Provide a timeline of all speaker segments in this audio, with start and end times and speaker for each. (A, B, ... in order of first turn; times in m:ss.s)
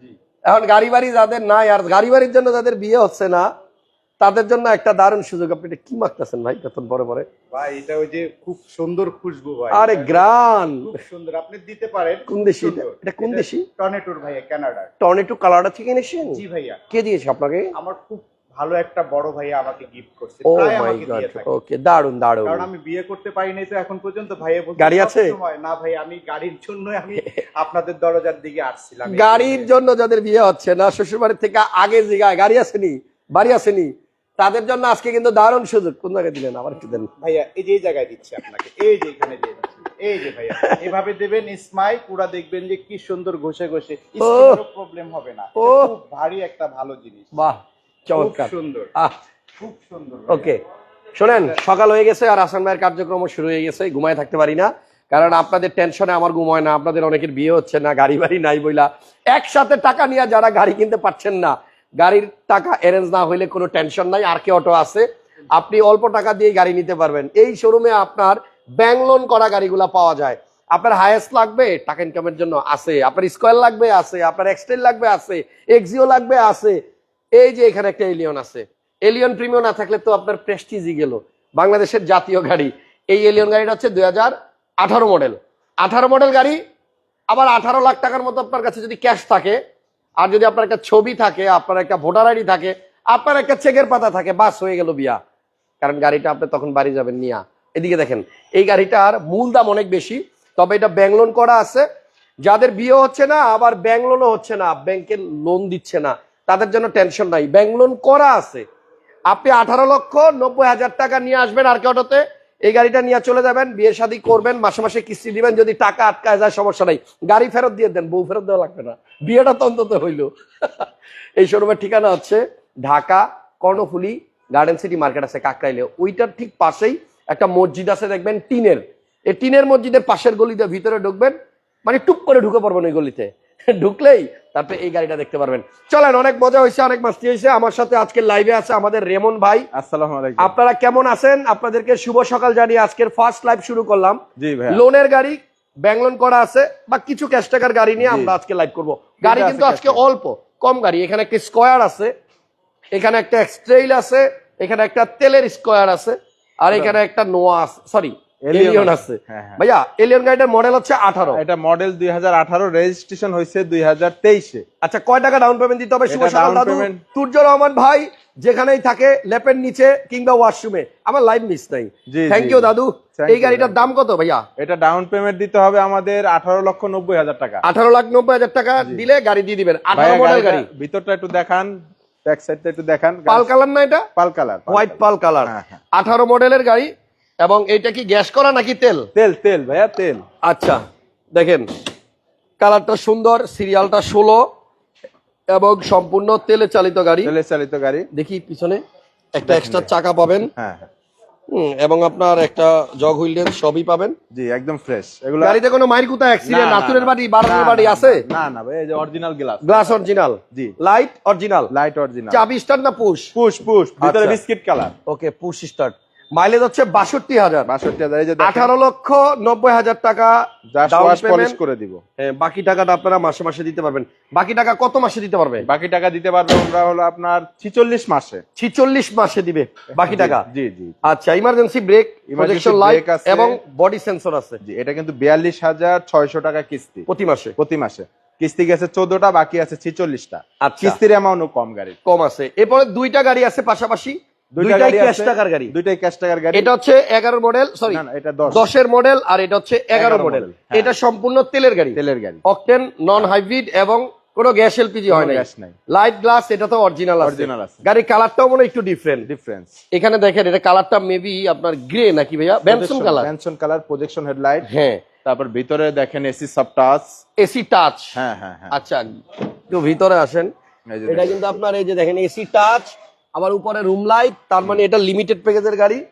0:00.4-0:03.5 A
0:04.2-0:07.3 A
0:07.5-0:10.3 B
0:09.7-0:11.0 A
0:10.8-0:14.9 B
0:12.3-0:13.7 A
0:15.0-0:17.7 A
0:16.3-0:16.8 B
0:17.7-0:21.6 B
0:20.4-0:22.7 A
0:22.4-0:29.7 B
0:24.8-0:25.4 A
0:29.0-0:37.1 A
0:37.2-0:47.3 B
0:44.2-0:44.6 A
0:45.6-0:45.9 A
0:47.3-0:49.1 A
0:48.1-0:48.9 B
0:49.6-0:50.5 B
0:50.3-0:50.6 A
0:51.2-1:16.8 A
1:17.3-1:26.6 A
1:27.3-1:29.6 A
1:30.2-1:35.2 A
1:35.8-1:41.8 A
1:42.4-1:48.6 A
1:49.3-2:11.3 A
2:11.8-2:19.7 A
2:19.7-2:20.5 C
2:20.4-2:32.1 A
2:24.4-2:24.8 C
2:28.0-2:28.4 C
2:29.2-2:30.0 C
2:32.9-2:41.4 A
2:36.7-2:37.0 C
2:38.4-2:39.6 C
2:41.3-2:44.6 C
2:44.8-2:54.4 A
2:46.1-2:47.0 C
2:52.1-2:53.8 C
2:54.6-2:57.6 C
2:57.6-3:00.7 A
2:59.9-3:03.5 C
3:03.3-3:04.0 A
3:04.1-3:05.8 C
3:04.7-3:09.1 A
3:09.1-3:10.2 C
3:10.4-3:10.8 A
3:11.3-3:11.7 A
3:12.6-3:14.5 A
3:15.5-3:17.3 A
3:17.2-3:18.1 C
3:18.1-3:18.8 A
3:19.3-3:20.5 A
3:19.4-3:19.9 C
3:20.6-3:20.9 C
3:21.5-3:24.2 A
3:24.3-3:25.6 C
3:25.4-3:28.2 A
3:26.4-3:29.9 C
3:29.6-3:31.7 A
3:31.7-3:32.4 C
3:32.3-3:33.3 A
3:33.3-3:34.9 C
3:34.0-3:34.4 A
3:35.1-3:37.7 A
3:37.6-3:38.7 C
3:38.4-3:41.6 A
3:40.7-3:42.0 C
3:42.2-3:45.7 A
3:45.6-3:48.4 C
3:48.6-3:50.4 A
3:50.0-3:51.0 C
3:51.0-3:54.6 A
3:52.3-3:53.6 C
3:54.6-3:57.1 C
3:57.1-3:57.5 A
3:57.6-4:02.0 C
4:00.6-4:01.0 A
4:02.0-4:05.7 A
4:04.5-4:06.7 C
4:06.5-4:19.3 A
4:07.9-4:08.7 C
4:09.9-4:10.9 C
4:12.0-4:12.4 C
4:15.1-4:15.8 C
4:17.2-4:17.8 C
4:19.2-4:19.8 C
4:19.9-4:23.3 A
4:22.6-4:24.6 C
4:24.6-4:25.0 A
4:25.2-4:27.2 C
4:27.4-4:28.2 A
4:28.1-4:28.7 C
4:28.7-4:30.5 A
4:30.9-4:31.3 C
4:31.0-4:36.0 A